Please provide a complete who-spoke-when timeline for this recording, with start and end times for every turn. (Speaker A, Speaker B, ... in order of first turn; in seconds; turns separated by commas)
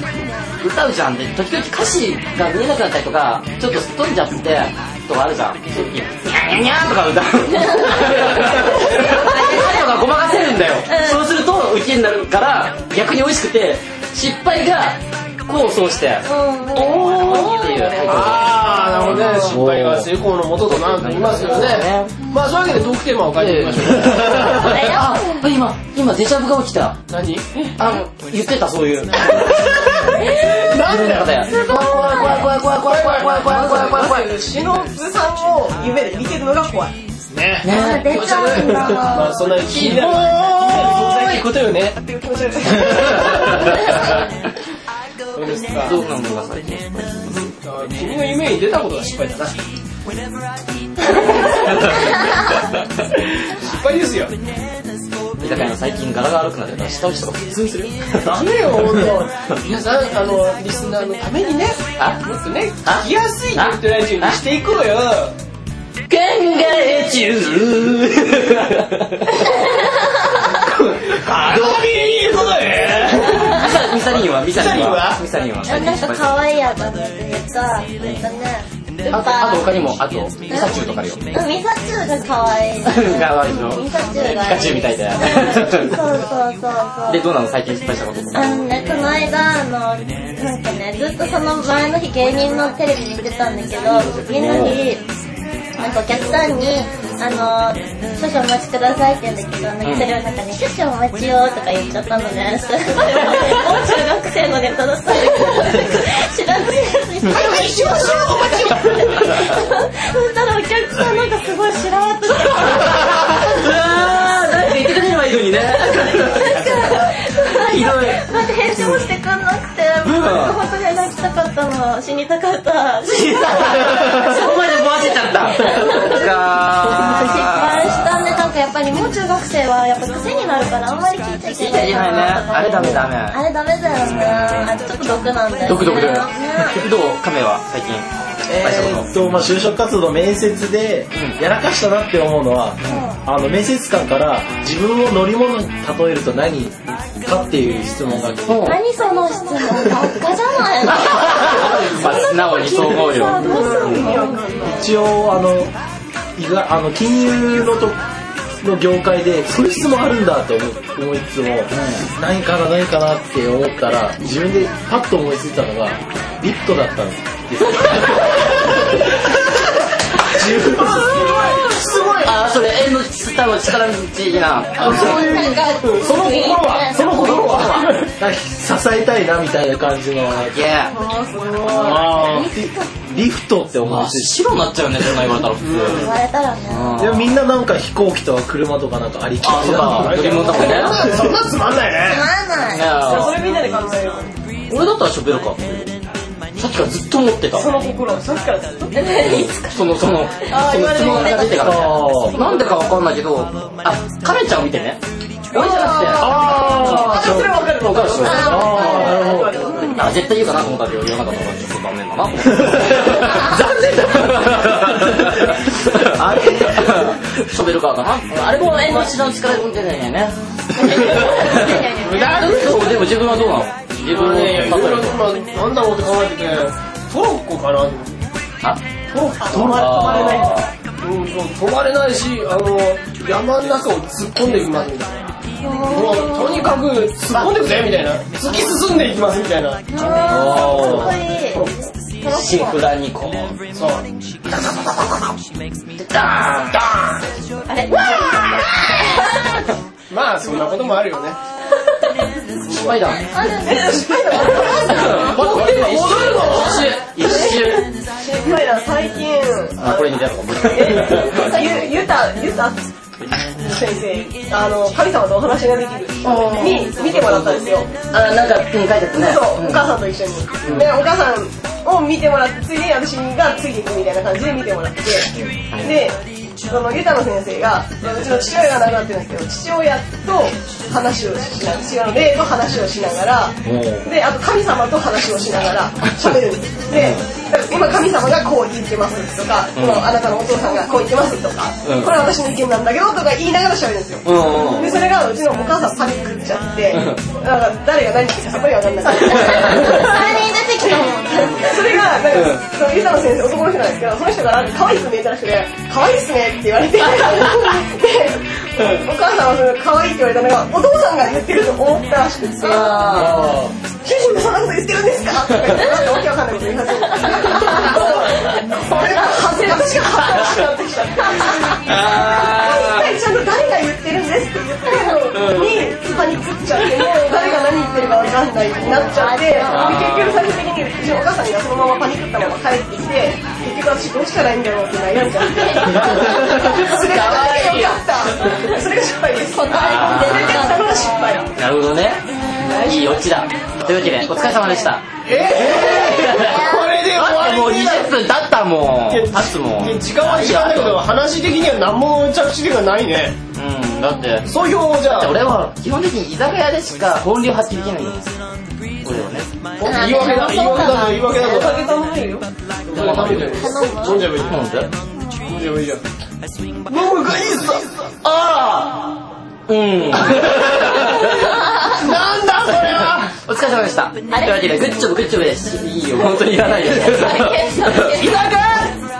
Speaker A: 0.6-22.3, Speaker B: 7.5-10.2, Speaker B: 10.8-11.2, Speaker B: 16.2-19.2, Speaker C: 18.1-24.7, Speaker A: 23.3-27.0, Speaker B: 24.3-25.4, Speaker C: 27.1-27.7, Speaker A: 27.8-30.0, Speaker C: 29.4-31.3, Speaker A: 30.6-34.3, Speaker B: 31.5-32.5, Speaker C: 32.9-34.0, Speaker D: 33.8-37.0, Speaker C: 37.3-37.7, Speaker A: 37.6-41.5, Speaker B: 37.7-39.4, Speaker C: 39.1-42.0, Speaker D: 40.5-41.3, Speaker D: 42.0-44.0, Speaker C: 45.3-46.0, Speaker A: 45.8-47.5, Speaker C: 47.6-49.6, Speaker A: 51.3-52.8, Speaker C: 53.4-54.3, Speaker A: 55.4-58.4, Speaker C: 58.2-65.4, Speaker A: 62.8-64.4, Speaker A: 66.1-69.9, Speaker B: 66.4-67.3, Speaker B: 69.5-70.1, Speaker C: 71.0-75.2, Speaker A: 71.3-71.8, Speaker A: 73.1-76.4, Speaker B: 73.3-73.7, Speaker B: 75.6-79.7, Speaker A: 78.0-78.2, Speaker A: 79.1-81.3, Speaker B: 80.5-87.3, Speaker A: 82.8-86.0, Speaker A: 87.1-88.7, Speaker B: 88.3-95.0, Speaker A: 93.8-94.8, Speaker B: 95.8-113.7, Speaker A: 99.8-100.1, Speaker D: 107.3-109.0, Speaker A: 112.5-119.0, Speaker B: 115.5-136.9, Speaker A: 120.0-120.6, Speaker A: 123.1-128.5, Speaker A: 131.4-133.4, Speaker A: 133.9-135.0, Speaker A: 135.6-139.1, Speaker E: 138.4-148.8, Speaker A: 141.1-141.4, Speaker B: 142.8-143.2, Speaker A: 148.5-148.8, Speaker B: 148.6-154.4, Speaker A: 150.9-154.2, Speaker D: 153.3-154.9, Speaker E: 154.6-155.7, Speaker E: 156.4-158.0, Speaker E: 158.6-171.5, Speaker A: 161.7-162.1, Speaker A: 167.6-169.0, Speaker A: 170.9-175.4, Speaker C: 171.0-172.4, Speaker B: 174.8-177.8, Speaker E: 174.8-175.6, Speaker D: 174.8-175.6, Speaker C: 175.1-178.1, Speaker A: 177.0-178.0, Speaker E: 178.2-180.6, Speaker A: 180.3-180.9, Speaker D: 180.9-182.7, Speaker B: 181.6-182.7, Speaker E: 181.7-184.5, Speaker C: 181.9-182.5, Speaker A: 183.8-186.1, Speaker C: 185.6-186.1, Speaker B: 185.8-187.1, Speaker A: 186.7-187.3, Speaker E: 187.0-190.4, Speaker A: 189.4-191.1, Speaker C: 189.5-192.3, Speaker D: 190.5-190.8, Speaker E: 191.0-191.3, Speaker D: 191.3-191.8, Speaker B: 192.0-193.0, Speaker A: 192.6-193.4, Speaker D: 192.9-194.3, Speaker A: 194.7-195.9, Speaker A: 196.6-197.9, Speaker D: 197.5-199.2, Speaker B: 198.9-199.8, Speaker A: 199.1-209.3, Speaker B: 200.4-201.8, Speaker E: 201.5-202.4, Speaker D: 205.5-210.1, Speaker E: 206.1-207.6, Speaker B: 208.2-209.2, Speaker E: 208.2-209.7, Speaker A: 209.8-225.4, Speaker E: 212.6-215.5, Speaker E: 216.1-217.1, Speaker B: 220.8-222.9, Speaker C: 224.1-228.2, Speaker D: 229.1-230.7, Speaker A: 229.4-230.7, Speaker C: 231.0-235.3, Speaker B: 235.6-236.8, Speaker C: 235.9-241.8, Speaker A: 237.3-237.7, Speaker B: 239.9-241.7, Speaker E: 240.2-241.1, Speaker D: 240.3-240.7, Speaker B: 242.2-242.8, Speaker A: 242.2-243.6, Speaker C: 243.7-244.1, Speaker A: 244.5-245.4, Speaker A: 245.9-247.2, Speaker B: 247.7-249.3, Speaker A: 248.0-248.9, Speaker C: 250.1-251.4, Speaker A: 252.6-253.2, Speaker C: 252.7-253.1, Speaker B: 253.3-255.2, Speaker D: 253.7-255.3, Speaker A: 254.4-257.9, Speaker C: 255.0-256.8, Speaker D: 256.9-262.8, Speaker A: 259.8-261.9, Speaker D: 263.5-268.0, Speaker A: 266.2-270.1, Speaker D: 269.1-300.3, Speaker A: 270.6-270.9, Speaker A: 275.7-276.0, Speaker E: 283.6-284.1, Speaker A: 286.9-287.2, Speaker A: 289.7-290.1, Speaker A: 291.8-292.2, Speaker A: 294.2-295.0, Speaker A: 296.9-297.2, Speaker A: 299.1-300.3, Speaker B: 299.4-301.9, Speaker D: 301.1-313.2, Speaker A: 301.7-302.6, Speaker A: 312.6-313.4, Speaker B: 312.7-313.4, Speaker E: 313.1-313.8, Speaker D: 313.9-341.5, Speaker B: 317.2-319.0, Speaker B: 319.8-320.1, Speaker A: 320.2-320.7, Speaker A: 321.7-323.1, Speaker C: 325.3-325.8, Speaker A: 328.8-330.5, Speaker B: 329.0-330.0, Speaker B: 335.6-337.5, Speaker A: 336.2-338.2, Speaker B: 339.5-341.5, Speaker A: 339.7-340.8, Speaker A: 341.5-351.0, Speaker B: 342.3-345.0, Speaker C: 345.2-348.1, Speaker B: 345.7-347.0, Speaker C: 349.1-353.4, Speaker A: 353.5-354.5, Speaker B: 354.0-354.3, Speaker C: 354.4-355.4, Speaker A: 355.0-358.3, Speaker A: 359.0-359.5, Speaker C: 359.8-361.8, Speaker B: 359.8-361.7, Speaker D: 360.1-362.5, Speaker C: 362.9-364.6, Speaker A: 362.9-363.6, Speaker B: 363.5-364.3, Speaker A: 364.4-364.9, Speaker C: 365.4-366.0, Speaker C: 366.9-368.1, Speaker A: 368.2-371.6, Speaker C: 370.4-370.9, Speaker C: 371.5-373.3, Speaker A: 372.8-378.4, Speaker B: 374.3-374.9, Speaker B: 376.7-378.4, Speaker C: 378.1-378.9